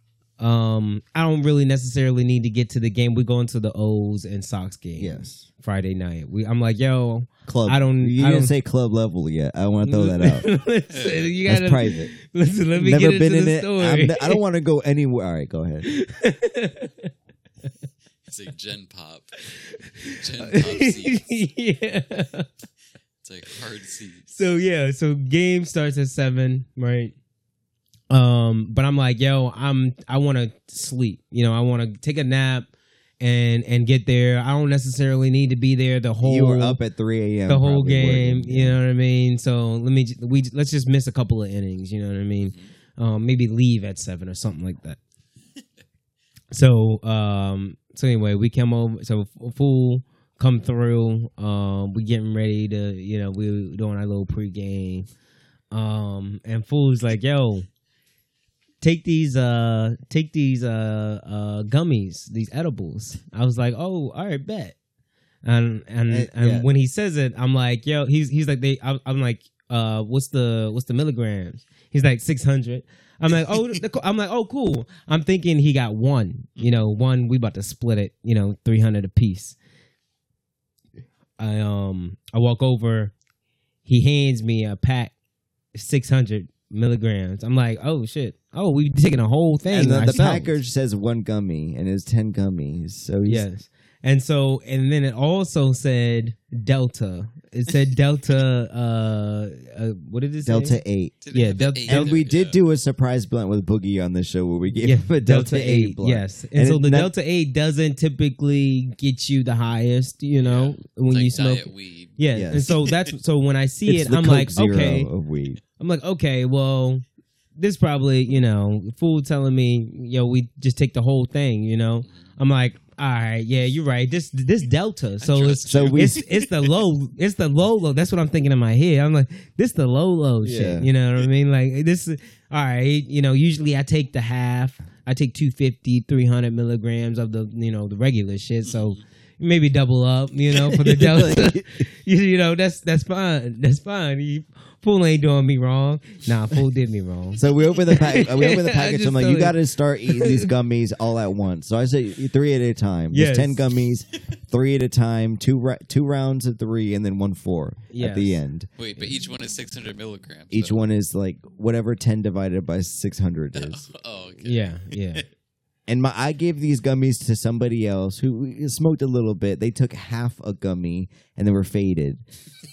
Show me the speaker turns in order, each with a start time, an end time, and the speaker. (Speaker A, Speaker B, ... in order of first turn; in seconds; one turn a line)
Speaker A: 0.4-8.5
Speaker B: 5.0-5.4
Speaker B: 7.5-10.5
Speaker A: 9.8-14.4
Speaker C: 10.9-11.3
Speaker B: 11.4-12.1
Speaker B: 12.8-15.9
Speaker A: 15.8-17.1
Speaker C: 18.3-19.4
Speaker A: 19.5-22.5
Speaker C: 20.0-21.3
Speaker C: 23.2-24.3
Speaker A: 24.3-27.1
Speaker A: 28.1-32.7
Speaker A: 33.2-36.8
Speaker B: 36.2-38.8
Speaker A: 37.5-45.0
Speaker A: 46.5-55.1
Speaker A: 55.7-57.6
Speaker A: 58.8-64.7
Speaker A: 65.4-79.5
Speaker B: 66.1-66.7
Speaker A: 81.4-83.1
Speaker A: 83.8-85.1
Speaker A: 85.7-90.5
Speaker B: 89.7-93.5
Speaker A: 93.2-100.8
Speaker B: 100.4-101.2
Speaker C: 101.2-102.6
Speaker A: 101.3-102.2
Speaker B: 101.9-107.1
Speaker A: 104.7-115.1
Speaker C: 110.4-112.2
Speaker B: 112.3-112.7
Speaker B: 113.9-115.6
Speaker A: 115.8-117.0
Speaker A: 117.6-149.5
Speaker C: 125.2-126.7
Speaker B: 125.7-126.2
Speaker B: 130.4-130.9
Speaker B: 140.7-141.6
Speaker B: 147.3-158.7
Speaker A: 150.1-150.5
Speaker A: 153.1-153.6
Speaker A: 157.9-158.4
Speaker C: 158.8-160.8
Speaker B: 160.5-163.8
Speaker C: 163.5-165.2
Speaker A: 164.4-165.2
Speaker B: 165.9-172.2